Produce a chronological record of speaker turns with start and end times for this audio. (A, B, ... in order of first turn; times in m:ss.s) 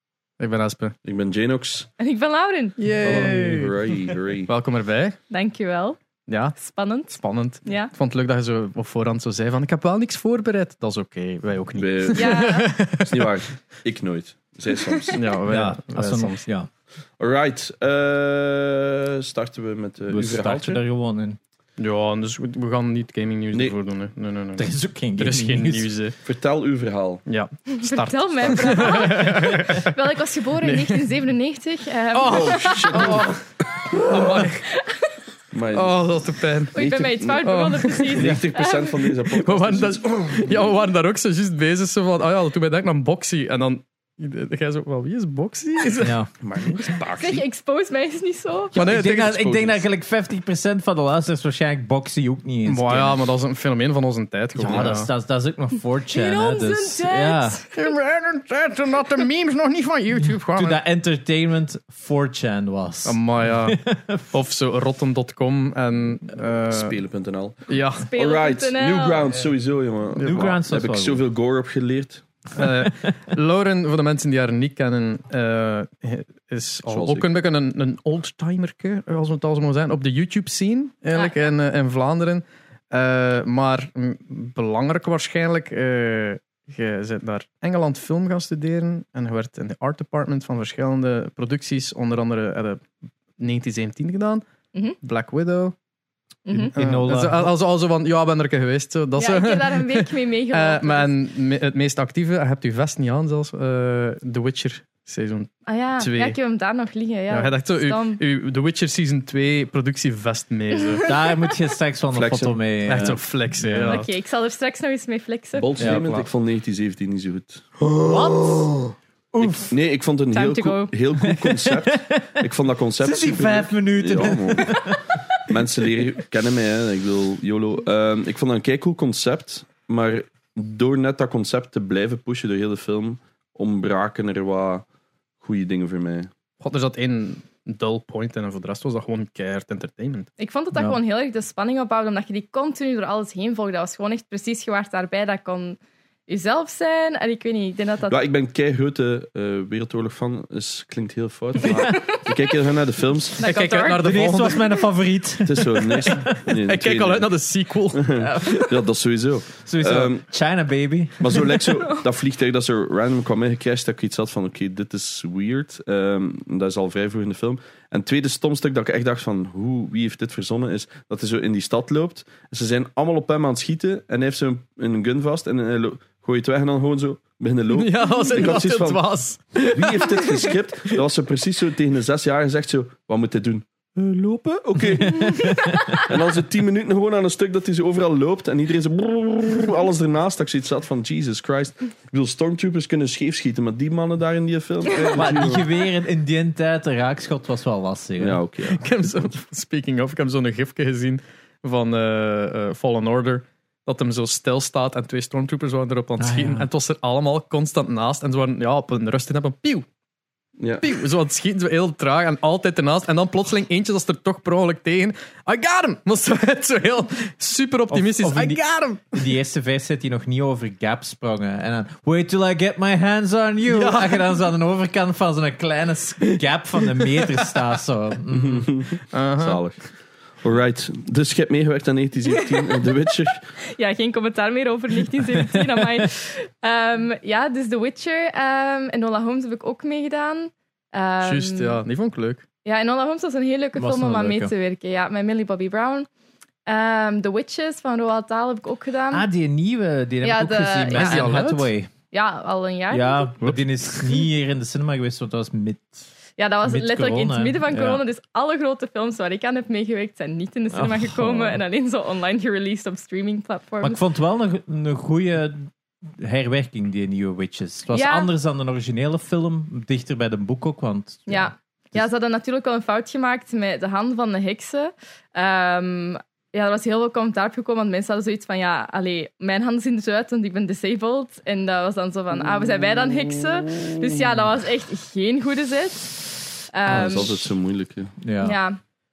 0:00.4-0:01.0 A
0:01.0-0:01.9 B
0:02.0-0:02.9 C
0:02.8-0:03.8 A
0:03.0-0:04.5 B
0:04.5-0:05.2 A
0:05.3-0:06.0 C
0:06.3-0:06.6 A
0:06.6-0:07.9 C
0:07.1-0:13.3 A
0:11.8-0:12.4 B
0:12.2-0:12.7 C
0:13.0-0:15.2 B
0:15.1-0:16.4 A
0:15.5-0:16.7 D
0:17.2-0:20.8 B
0:20.1-0:21.4 D
0:21.8-0:26.2 A
0:24.6-0:25.9 D
0:26.2-0:27.2 B
0:27.3-0:30.0 A
0:27.8-0:33.2 C
0:30.6-0:31.1 A
0:32.1-0:34.6 A
0:32.3-0:34.5 B
0:35.5-0:36.1 B
0:35.7-0:38.3 A
0:36.7-0:39.1 C
0:36.8-0:37.5 B
0:38.1-0:40.8 B
0:39.3-0:46.9 A
0:46.0-0:46.3 D
0:46.4-0:47.4 B
0:47.1-0:48.7 C
0:48.7-0:53.2 D
0:48.7-0:49.4 A
0:48.9-0:49.8 B
0:52.7-0:55.1 A
0:54.6-0:57.6 D
0:54.7-0:54.9 B
0:56.1-0:57.8 C
0:57.7-1:00.8 A
1:00.5-1:04.3 D
1:03.1-1:06.9 A
1:06.7-1:12.3 B
1:07.7-1:08.1 A
1:08.0-1:09.3 C
1:10.2-1:11.2 D
1:12.6-1:35.8 A
1:16.9-1:17.3 B
1:21.2-1:21.5 C
1:36.5-1:36.7 C
1:36.5-1:46.4 A
1:36.8-1:37.5 D
1:39.2-1:41.1 C
1:45.7-1:48.2 C
1:47.3-1:51.1 A
1:51.1-1:54.0 D
1:52.1-1:53.2 B
1:52.9-1:54.1 A
1:53.9-1:55.9 C
1:55.6-1:57.9 B
1:55.8-1:56.2 D
1:58.0-1:59.7 D
1:59.4-2:14.9 B
2:00.3-2:00.9 C
2:01.2-2:02.4 D
2:03.0-2:05.2 D
2:15.4-2:16.3 B
2:16.6-2:20.3 A
2:20.4-2:28.2 C
2:28.1-2:33.4 B
2:31.7-2:32.1 C
2:33.4-2:34.2 C
2:33.4-2:34.8 A
2:34.0-2:36.5 D
2:35.4-2:37.3 B
2:35.9-2:38.7 A
2:37.9-2:40.2 B
2:38.2-2:38.7 D
2:39.6-2:41.6 D
2:41.2-3:15.6 B
2:57.7-3:01.0 A
3:05.2-3:05.8 D
3:15.1-3:18.4 D
3:18.2-3:19.3 B
3:18.7-3:29.9 A
3:26.2-3:26.7 D
3:30.8-3:39.3 A
3:37.9-3:48.8 D
3:43.7-3:44.3 A
3:48.3-3:53.5 B
3:49.1-3:49.6 A
3:52.4-4:01.8 C
4:01.2-4:02.4 A
4:02.6-4:06.1 C
4:03.8-4:04.5 D
4:06.7-4:09.2 C
4:09.1-4:11.9 D
4:10.2-4:11.6 C
4:10.9-4:11.7 A
4:12.1-4:13.3 C
4:12.9-4:16.0 D
4:16.4-4:24.0 C
4:16.6-4:18.0 D
4:20.7-4:21.6 D
4:23.8-4:32.0 D
4:27.9-4:28.3 C
4:31.3-4:47.5 C
4:46.9-4:48.1 B
4:48.2-4:48.6 D
4:48.4-4:48.8 C